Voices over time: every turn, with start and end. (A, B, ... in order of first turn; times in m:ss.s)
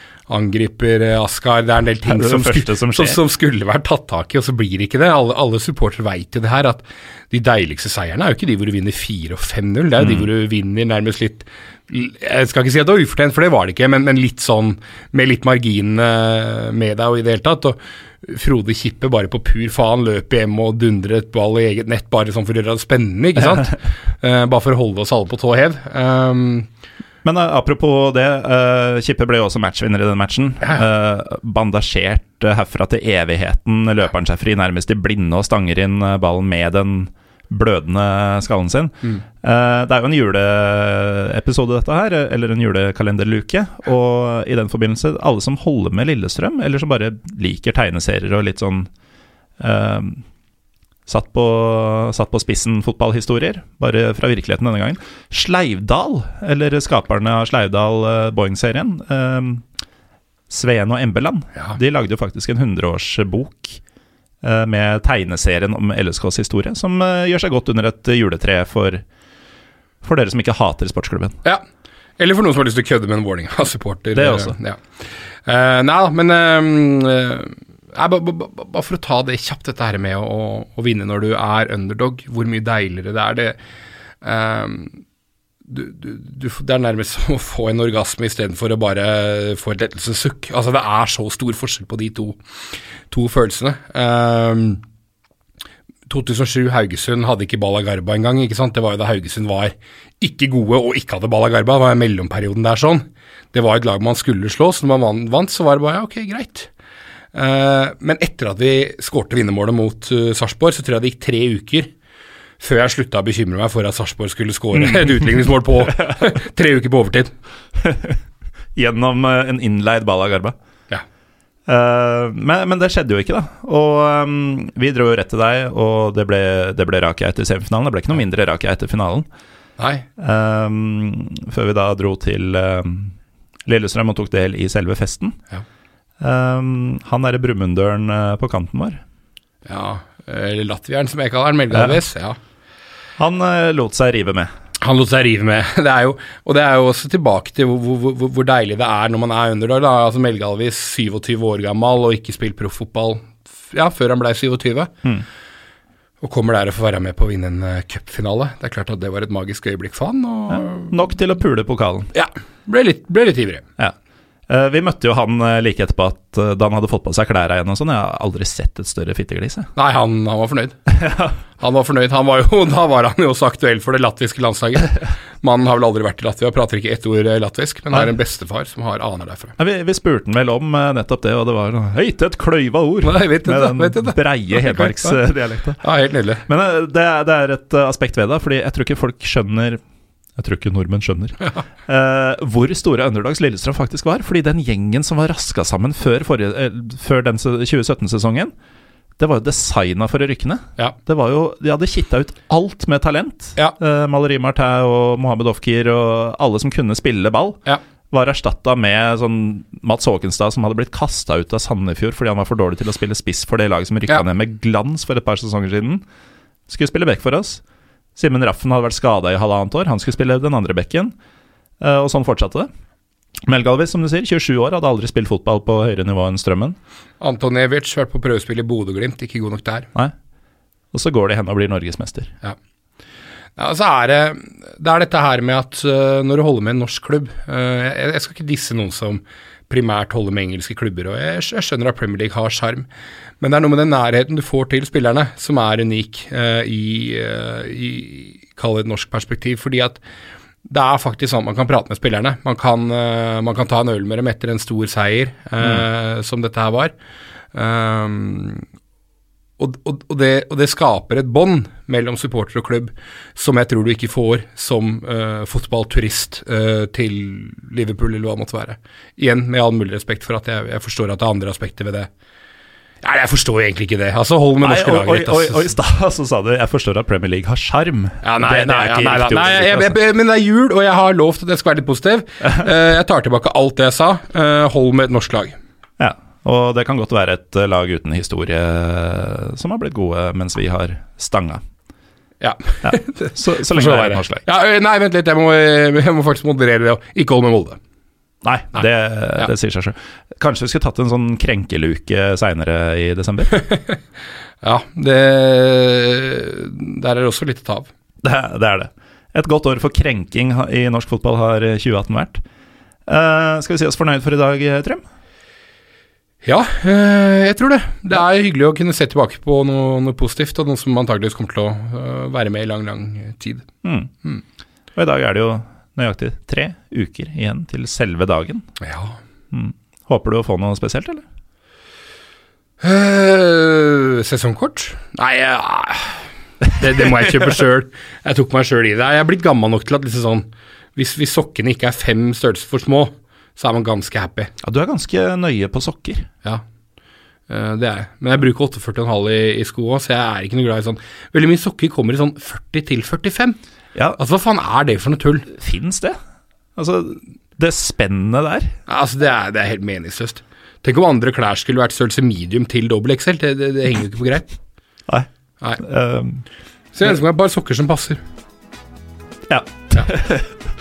0:00.3-0:26.7 A
0:02.0-0:03.2 B
0:10.0-0:10.3 B
0:27.2-0:48.9 B
0:49.6-0:50.2 B
0:51.1-0:59.6 B
1:00.5-1:03.8 B
1:04.4-1:09.0 B
1:10.0-1:11.4 B
1:12.2-1:14.8 A
1:14.1-1:14.6 B
1:15.4-1:23.6 A
1:24.2-1:25.0 A
1:25.6-1:32.4 A
1:33.1-1:34.8 A
1:36.1-1:46.7 A
1:47.3-1:51.9 A
1:52.6-1:57.3 A
1:57.8-1:58.2 B
1:58.7-2:00.5 B
2:01.7-2:09.3 B
2:09.8-2:10.0 A
2:10.2-2:13.1 B
2:13.6-2:15.4 B
2:16.2-2:19.0 B
2:19.6-2:22.4 A
2:23.2-2:24.5 B
2:24.8-2:34.9 A
2:36.2-2:41.1 A
2:40.5-2:42.1 B
2:42.1-2:43.6 A
2:44.5-2:49.7 B
2:49.7-2:50.8 A
2:50.9-2:51.3 B
2:51.6-2:59.5 A
2:59.6-3:05.8 B
3:03.0-3:05.2 A
3:05.8-3:06.4 A
3:06.5-3:09.8 B
3:10.4-3:18.5 B
3:19.2-3:36.0 B
3:36.7-3:37.6 B
3:38.2-3:41.1 B
3:41.8-3:42.7 B
3:43.5-3:46.8 B
3:47.2-3:49.9 A
3:50.9-3:52.3 B
3:53.6-4:02.9 A
4:03.4-4:10.0 A
4:10.6-4:16.9 A
4:17.5-4:18.6 A
4:19.6-4:32.1 A
4:33.0-4:35.7 A
4:34.6-4:40.0 B
4:38.2-4:45.6 A
4:46.0-4:51.6 B
4:52.4-4:57.8 A
4:52.8-4:54.4 B
4:58.4-5:03.5 B
5:03.5-5:04.0 A
5:04.6-5:07.9 A
5:08.2-5:12.4 B
5:13.1-5:15.0 B
5:16.4-5:23.6 A
5:23.8-5:24.1 B
5:25.0-5:28.6 B
5:28.8-5:29.2 A
5:29.5-5:31.2 B
5:32.8-5:44.5 A
5:44.6-5:46.3 B
5:47.5-5:53.6 A
5:54.2-5:55.5 A
5:55.5-5:56.2 B
5:56.8-5:58.7 B
5:58.9-6:04.5 A
6:05.8-6:06.4 B
6:06.9-6:08.2 A
6:09.5-6:10.6 B